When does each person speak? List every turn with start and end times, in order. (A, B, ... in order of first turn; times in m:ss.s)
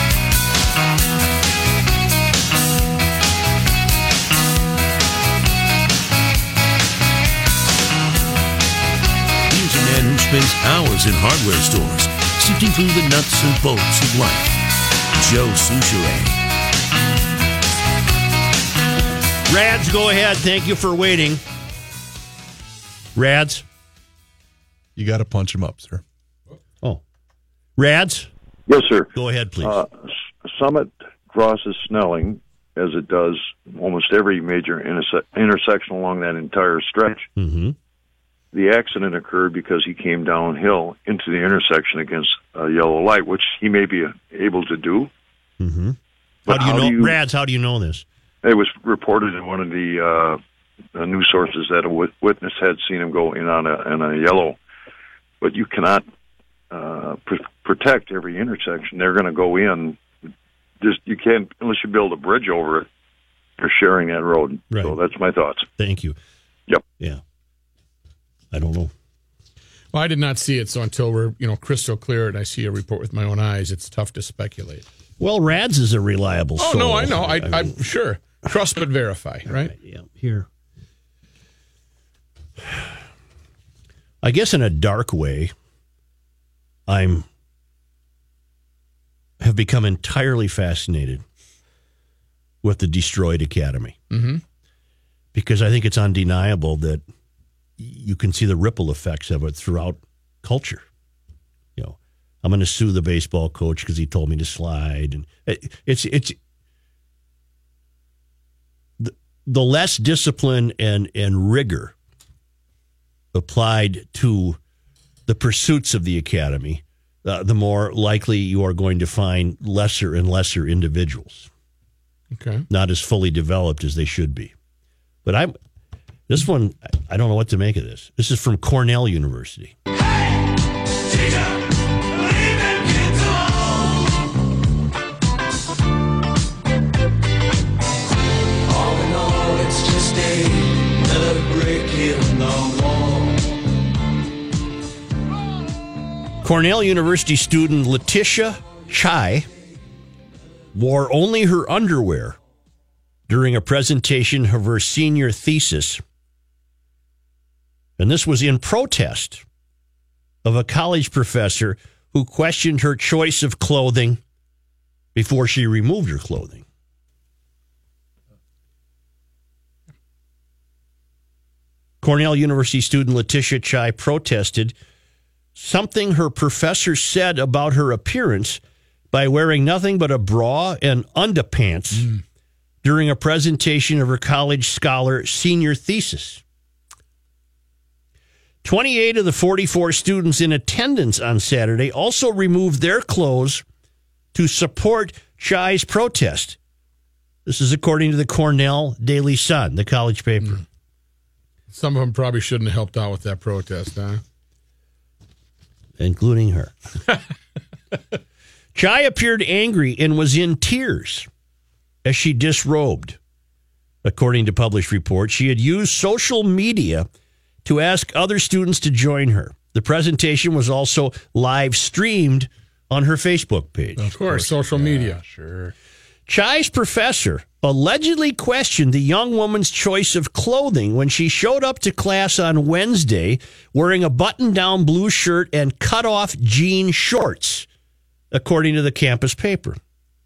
0:09.5-0:14.5 A
0:15.2-0:16.4 A
0:19.5-0:21.4 B
0:23.1-0:23.6 B
0:25.0-0:26.0 C
0:27.8-0:28.3 B
0:28.7-0:29.1 D
0:29.1-0:29.8 B
0:29.6-0:37.3 D
0:37.4-0:37.8 B
0:38.5-0:45.1 D
0:45.6-0:46.0 B
0:46.5-0:47.2 D
0:46.5-0:48.0 B
0:48.4-0:50.4 D
0:50.9-0:54.6 D
0:55.4-0:56.0 D
0:56.7-1:00.0 D
1:00.8-1:02.9 D
1:03.6-1:05.7 D
1:04.7-1:05.0 B
1:05.8-1:06.2 B
1:08.5-1:08.9 B
1:09.9-1:14.8 E
1:15.2-1:17.8 B
1:16.6-1:19.7 E
1:19.5-1:20.5 B
1:24.2-1:25.5 B
1:26.9-1:27.3 B
1:29.4-1:31.2 B
1:32.6-1:34.0 B
1:34.1-1:34.4 E
1:35.3-1:37.0 B
1:37.8-1:40.8 B
1:41.8-1:46.4 B
1:49.0-1:51.9 B
1:53.3-1:54.6 B
1:55.3-2:01.5 B
2:02.3-2:02.6 E
2:02.7-2:04.5 B
2:05.2-2:05.5 B
2:06.3-2:09.8 B
2:12.8-2:13.5 A
2:18.7-2:23.2 A
2:26.4-2:29.5 B
2:30.7-2:32.4 B
2:33.3-2:36.0 B
2:38.0-2:39.4 B
2:40.4-2:44.2 B
2:45.1-2:46.6 B
2:52.0-2:54.7 B
2:55.5-2:58.6 B
2:59.1-3:02.1 B
3:02.8-3:06.4 B
3:08.6-3:13.6 B
3:14.3-3:16.6 B
3:17.4-3:20.6 B
3:21.7-3:24.2 E
3:26.0-3:26.7 B
3:28.7-3:31.3 B
3:32.0-3:33.2 B
3:34.0-3:37.1 B
3:37.6-3:44.4 B
3:44.0-3:45.2 E
3:44.6-3:45.7 C
3:46.3-3:57.7 B
3:58.3-3:59.8 B